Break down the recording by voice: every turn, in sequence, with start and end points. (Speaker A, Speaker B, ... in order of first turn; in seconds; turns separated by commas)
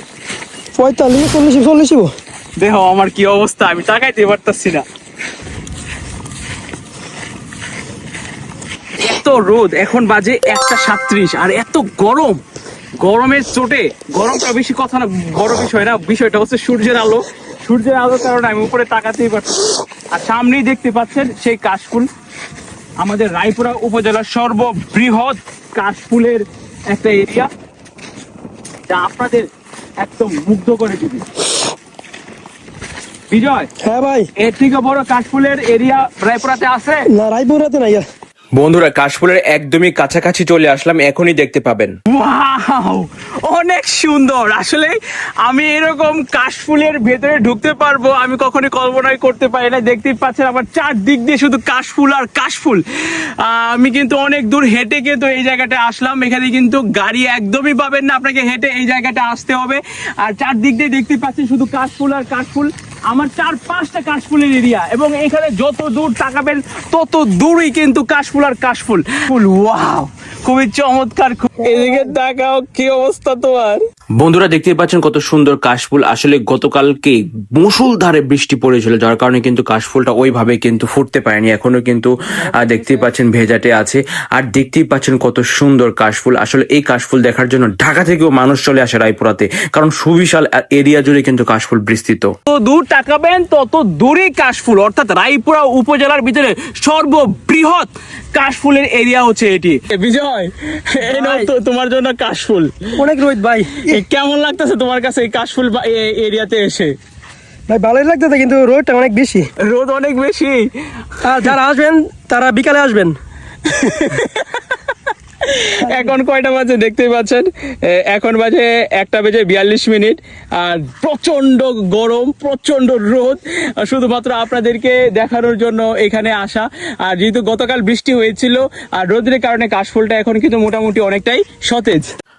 Speaker A: 0.8-2.1, Speaker B: 2.6-4.8, Speaker B: 9.0-12.4, Speaker B: 13.0-22.1, Speaker B: 23.0-27.5, Speaker B: 28.9-29.5, Speaker B: 30.0-31.3, Speaker B: 33.3-33.7, Speaker A: 33.8-34.3, Speaker B: 34.4-37.1, Speaker A: 37.1-38.1, Speaker C: 38.6-42.0, Speaker B: 42.1-52.8, Speaker B: 53.4-73.8, Speaker C: 74.2-92.3, Speaker B: 92.5-102.9, Speaker A: 101.1-101.5, Speaker A: 103.0-104.0, Speaker B: 103.8-106.9, Speaker A: 107.7-109.5, Speaker B: 109.6-110.7, Speaker A: 111.2-113.2, Speaker B: 111.3-111.5, Speaker B: 113.7-114.8, Speaker B: 115.4-132.1, Speaker A: 115.8-116.1